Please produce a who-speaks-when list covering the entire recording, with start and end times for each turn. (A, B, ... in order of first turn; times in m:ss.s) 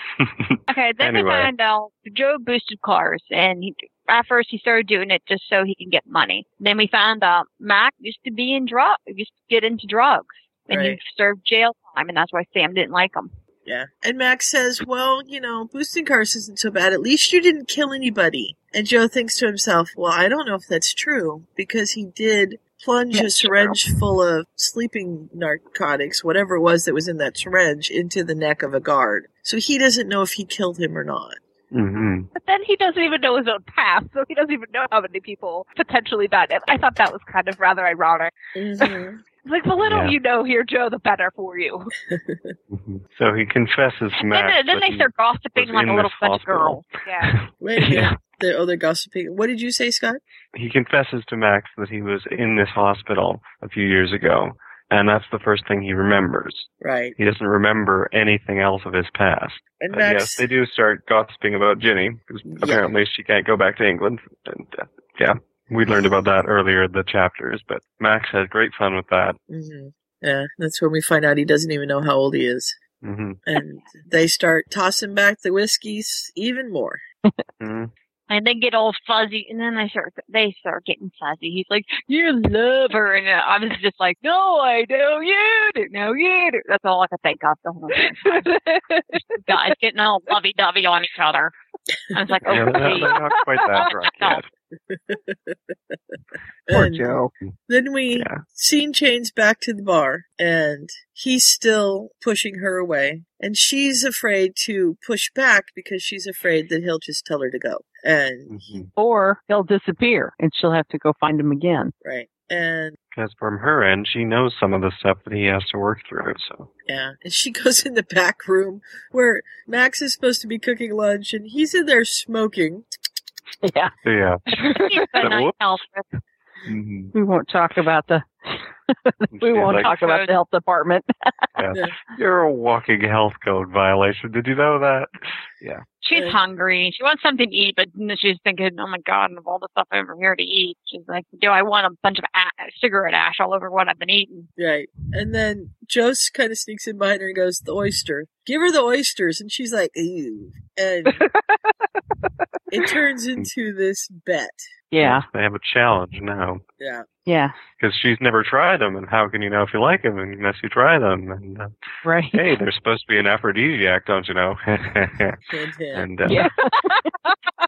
0:00.2-0:01.5 A
0:00.7-0:13.3 B
0:10.7-0:11.0 C
0:13.7-0:31.4 C
0:23.1-0:23.8 B
0:31.7-0:32.3 A
0:32.4-0:38.9 D
0:38.6-0:39.2 C
0:39.4-0:41.9 D
0:39.8-0:40.2 A
0:42.1-0:42.5 C
0:42.7-0:48.2 A
0:44.2-0:46.8 B
0:47.1-0:47.3 D
0:47.6-0:50.2 C
0:50.5-1:09.4 A
0:56.8-0:57.2 C
0:59.8-1:00.5 C
1:02.6-1:02.9 C
1:09.5-1:12.8 C
1:13.0-1:13.4 A
1:13.5-1:17.0 C
1:17.6-1:17.9 A
1:18.3-1:28.5 B
1:29.4-1:31.5 B
1:32.1-1:34.4 B
1:32.5-1:34.5 A
1:34.9-1:35.6 C
1:36.7-1:48.8 C
1:36.7-1:37.3 E
1:38.2-1:38.4 A
1:48.5-1:48.9 A
1:49.0-1:51.9 E
1:52.0-1:53.0 C
1:53.1-1:56.7 A
1:56.9-2:02.9 C
2:03.6-2:03.9 E
2:04.0-2:04.4 A
2:04.5-2:06.2 B
2:05.2-2:05.6 A
2:06.7-2:07.1 A
2:07.1-2:11.5 E
2:09.3-2:09.9 A
2:09.7-2:10.4 B
2:11.6-2:15.8 A
2:16.0-2:24.5 B
2:16.1-2:16.4 C
2:24.6-2:31.3 C
2:32.7-2:34.7 C
2:34.9-2:35.3 E
2:35.0-2:36.6 A
2:36.8-2:37.1 C
2:37.3-2:37.6 E
2:37.8-2:41.7 A
2:42.0-2:42.4 E
2:42.3-2:45.4 A
2:45.5-2:46.1 C
2:45.9-2:46.5 A
2:46.2-2:47.3 E